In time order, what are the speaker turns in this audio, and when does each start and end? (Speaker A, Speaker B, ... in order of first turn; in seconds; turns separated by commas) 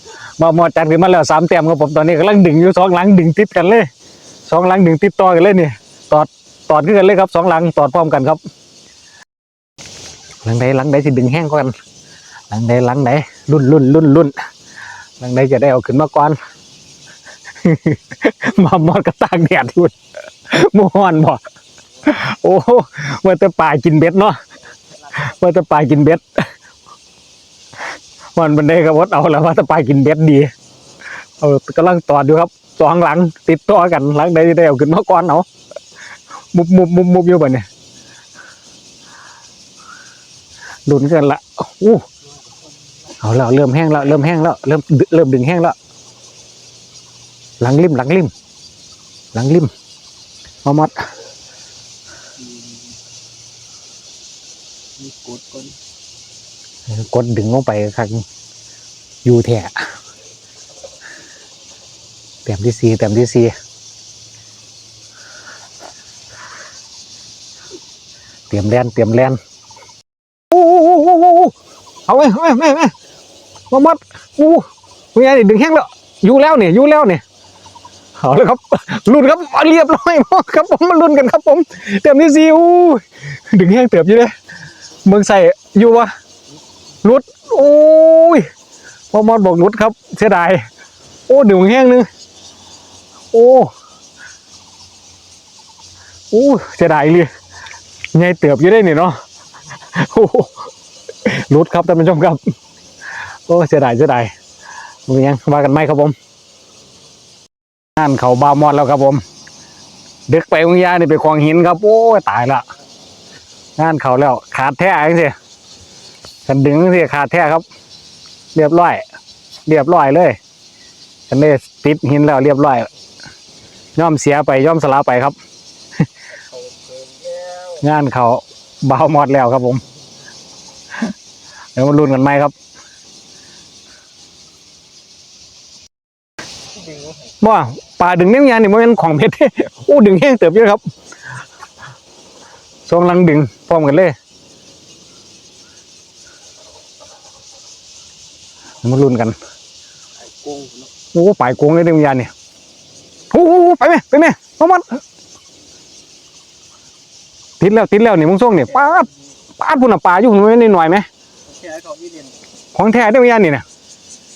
Speaker A: 0.4-3.9, Speaker A: 4.5-8.4, Speaker A: 10.4-11.7, Speaker A: 12.5-14.3, Speaker A: 15.2-16.4, Speaker A: 17.6-19.9, Speaker A: 20.5-21.4, Speaker A: 22.0-24.3, Speaker A: 25.2-26.4, Speaker A: 28.4-30.5, Speaker A: 31.4-35.5, Speaker A: 36.5-37.6, Speaker A: 40.9-42.0, Speaker A: 43.2-45.8, Speaker A: 47.6-48.3, Speaker A: 49.3-49.7, Speaker A: 50.6-51.0, Speaker B: 55.0-55.8, Speaker A: 56.9-58.2, Speaker A: 59.2-59.8, Speaker A: 62.5-63.5, Speaker A: 68.5-69.4, Speaker A: 70.5-71.5, Speaker A: 72.1-73.0, Speaker A: 73.7-77.2, Speaker A: 78.2-84.3, Speaker A: 85.0-86.1, Speaker A: 87.0-88.5, Speaker A: 89.1-90.6, Speaker A: 91.3-92.1, Speaker A: 93.3-93.7, Speaker A: 96.3-97.3, Speaker A: 98.1-99.2, Speaker A: 100.0-100.7, Speaker A: 101.2-102.5, Speaker A: 103.5-104.3, Speaker A: 105.1-106.2, Speaker A: 108.0-109.2, Speaker A: 110.3-112.7, Speaker A: 113.8-115.3, Speaker A: 116.5-117.6, Speaker A: 118.5-119.0, Speaker A: 119.7-120.4, Speaker A: 121.3-122.9, Speaker A: 124.0-125.4, Speaker A: 127.7-129.8, Speaker A: 131.8-132.5, Speaker A: 137.4-140.8, Speaker A: 142.9-144.1, Speaker A: 148.8-149.4, Speaker B: 150.4-150.8, Speaker A: 151.1-152.3, Speaker A: 153.3-155.0, Speaker A: 157.6-161.1, Speaker B: 161.6-162.3, Speaker A: 162.7-163.6